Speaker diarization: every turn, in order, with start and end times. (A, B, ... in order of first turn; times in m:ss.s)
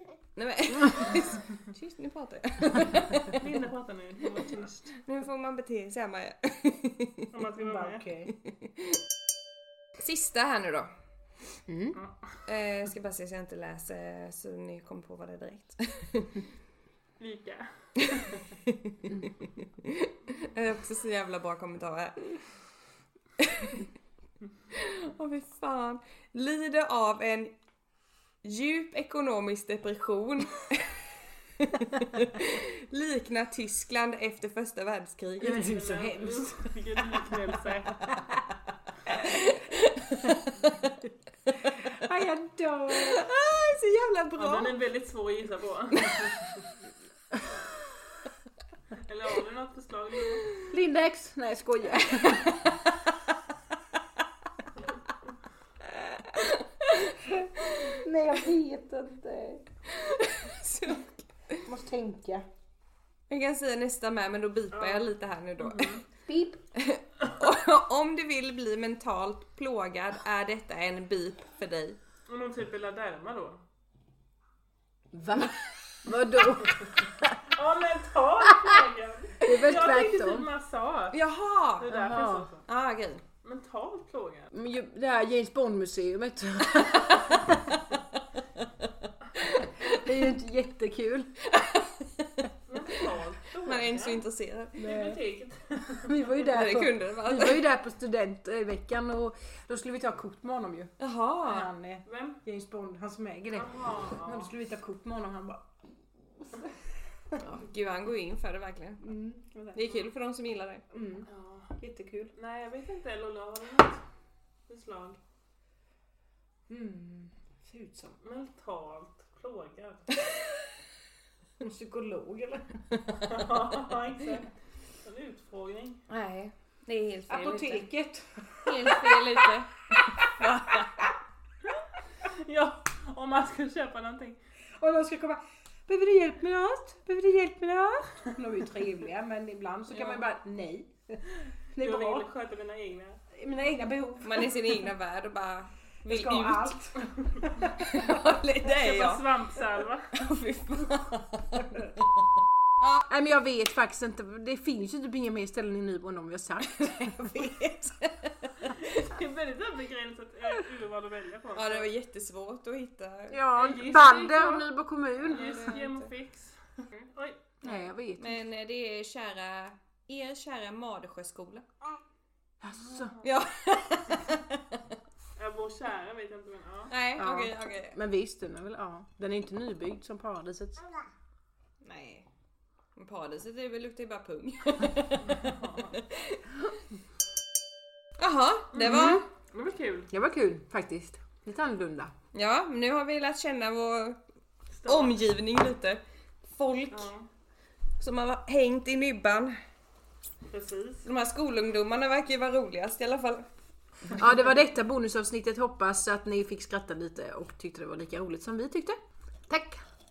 0:00.4-0:03.3 A
0:03.2-0:04.9 B
0:04.9-0:07.3 A
0:07.3-0:08.0 B
0:07.6-0:08.3 C
0:08.4-0:08.9 A
0:10.0-0:10.9 A
0:11.7-0:12.0 C
0:11.9-0:12.4 B
0:12.5-0:16.4 A
0:17.2-0:18.4 B
0:18.6-0:22.4 A
0:23.4-0:23.9 A
0:24.7-0:27.5 A
0:28.4-0:31.0 A
0:31.6-0:35.7 A
0:35.4-0:37.1 C
0:35.7-0:38.1 B
0:38.0-0:38.5 C
0:39.1-0:40.9 A
0:41.9-0:43.2 C
0:42.9-0:44.8 A
0:44.4-0:46.6 B
0:49.0-0:50.5 B
0:50.7-0:52.8 C
0:55.8-0:58.0 A
0:57.9-0:59.6 C
0:59.9-1:01.6 A
1:01.6-1:02.4 C
1:03.3-1:05.9 A
1:04.7-1:06.0 B
1:06.3-1:06.6 C
1:06.8-1:12.0 A
1:12.3-1:13.6 B
1:15.1-1:17.3 C
1:17.5-1:21.2 B
1:19.4-1:20.5 C
1:21.1-1:21.9 A
1:21.8-1:22.6 B
1:21.8-1:22.5 C
1:22.7-1:23.2 A
1:23.4-1:24.5 B
1:24.5-1:27.8 C
1:29.4-1:30.0 A
1:29.6-1:31.3 C
1:31.6-1:32.4 A
1:32.7-1:34.2 B
1:33.6-1:34.9 A
1:34.8-1:36.3 B
1:34.8-1:35.2 C
1:36.0-1:40.9 C
1:36.5-1:37.6 A
1:41.0-1:41.7 A
1:41.4-1:45.7 C
1:42.0-1:42.4 B
1:43.5-1:44.5 B
1:47.4-1:49.0 A
1:49.0-1:49.8 C
1:49.7-1:50.8 A
1:50.9-1:51.3 C
1:51.2-1:51.7 B
1:51.8-1:52.3 C
1:52.3-1:54.0 B
1:54.7-1:55.2 B
1:56.7-1:58.2 C
1:58.2-2:00.1 B
2:01.6-2:03.2 C
2:03.2-2:04.5 B
2:05.0-2:06.0 B
2:06.1-2:07.9 A
2:07.3-2:11.1 C
2:08.6-2:10.9 A
2:12.2-2:14.4 B
2:14.8-2:21.2 C
2:19.9-2:20.3 A
2:21.7-2:22.3 C
2:21.8-2:23.2 B
2:23.3-2:24.9 C
2:24.2-2:26.8 A
2:26.1-2:27.6 C
2:27.7-2:29.3 A
2:28.6-2:30.1 B
2:30.1-2:32.2 A
2:32.8-2:33.1 A
2:33.1-2:37.6 C
2:36.7-2:38.7 A
2:38.6-2:41.9 B
2:41.5-2:43.4 A
2:43.3-2:45.6 C
2:43.5-2:44.7 B
2:45.2-2:46.1 A
2:45.2-2:47.4 B
2:47.6-2:48.4 C
2:47.6-2:51.6 A
2:52.6-2:53.1 C
2:52.9-2:53.2 B
2:53.2-2:54.8 A
2:55.4-2:56.9 B
2:56.9-2:58.0 A
2:57.2-3:01.0 C
3:01.8-3:02.3 A
3:03.0-3:06.6 A
3:05.2-3:06.0 B
3:08.2-3:09.2 A
3:08.7-3:10.1 B
3:08.8-3:09.2 C
3:10.1-3:12.1 C
3:12.3-3:14.2 A
3:14.8-3:15.2 B
3:14.8-3:17.1 A
3:16.9-3:17.2 B
3:18.0-3:19.5 A
3:20.5-3:21.0 B
3:21.0-3:23.4 A
3:24.2-3:29.0 C
3:29.5-3:29.8 C